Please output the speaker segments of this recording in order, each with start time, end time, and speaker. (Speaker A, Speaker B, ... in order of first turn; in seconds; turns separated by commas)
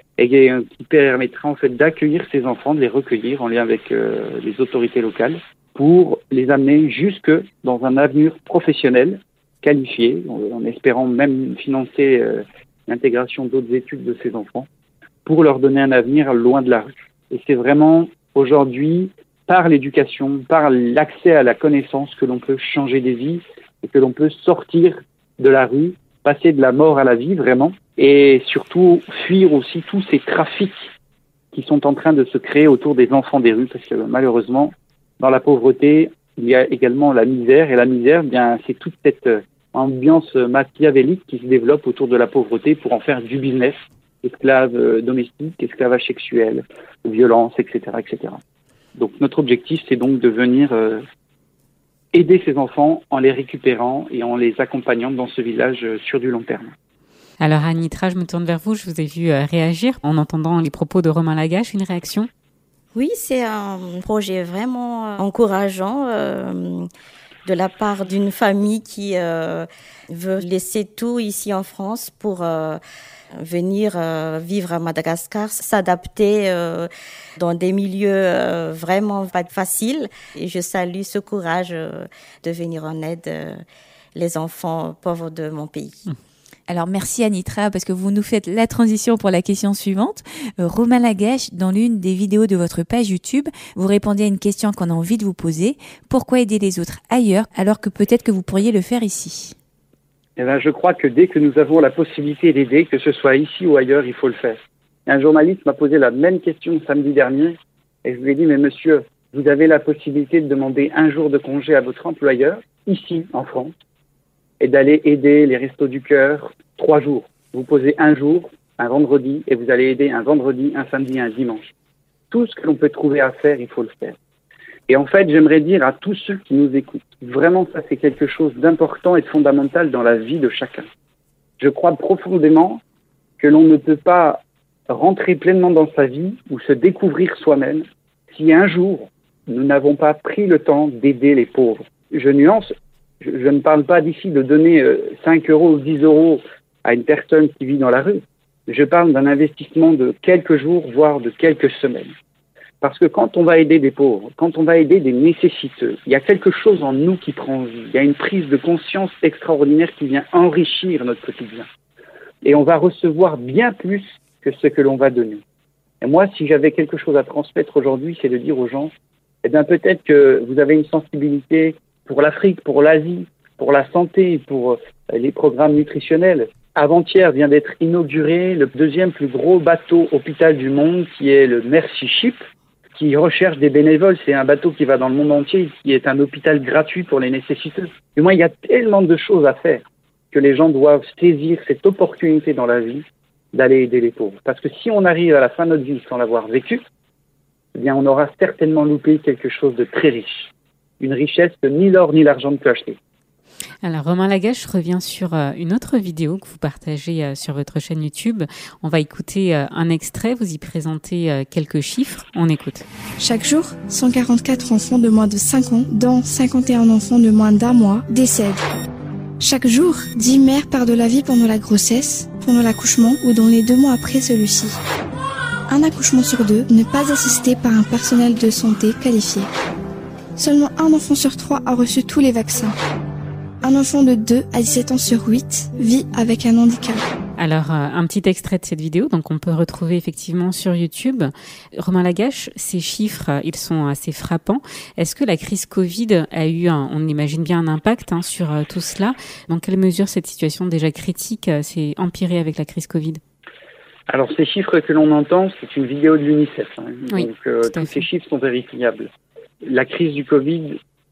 Speaker A: 0.2-14.7, Speaker A: 15.2-30.9, Speaker A: 31.5-48.4, Speaker A: 49.0-51.0, Speaker A: 52.1-56.7, Speaker B: 57.4-62.3, Speaker C: 63.0-66.9, Speaker C: 67.5-72.8, Speaker C: 73.4-83.6, Speaker C: 84.2-86.0, Speaker D: 86.7-99.5, Speaker A: 100.4-113.7, Speaker A: 114.6-121.7, Speaker A: 122.3-124.2, Speaker A: 124.9-130.9, Speaker A: 131.6-132.8, Speaker A: 133.4-152.1, Speaker A: 152.8-161.7, Speaker A: 162.4-165.4, Speaker A: 166.0-168.9, Speaker A: 169.4-182.4, Speaker A: 183.0-196.8, Speaker A: 197.8-203.0, Speaker B: 203.8-212.9, Speaker E: 213.2-218.7, Speaker E: 219.4-224.8, Speaker E: 225.7-229.5, Speaker E: 230.4-232.8, Speaker E: 233.6-237.0, Speaker B: 237.4-253.2, Speaker A: 254.1-259.1, Speaker B: 257.1-258.0, Speaker A: 259.6-260.8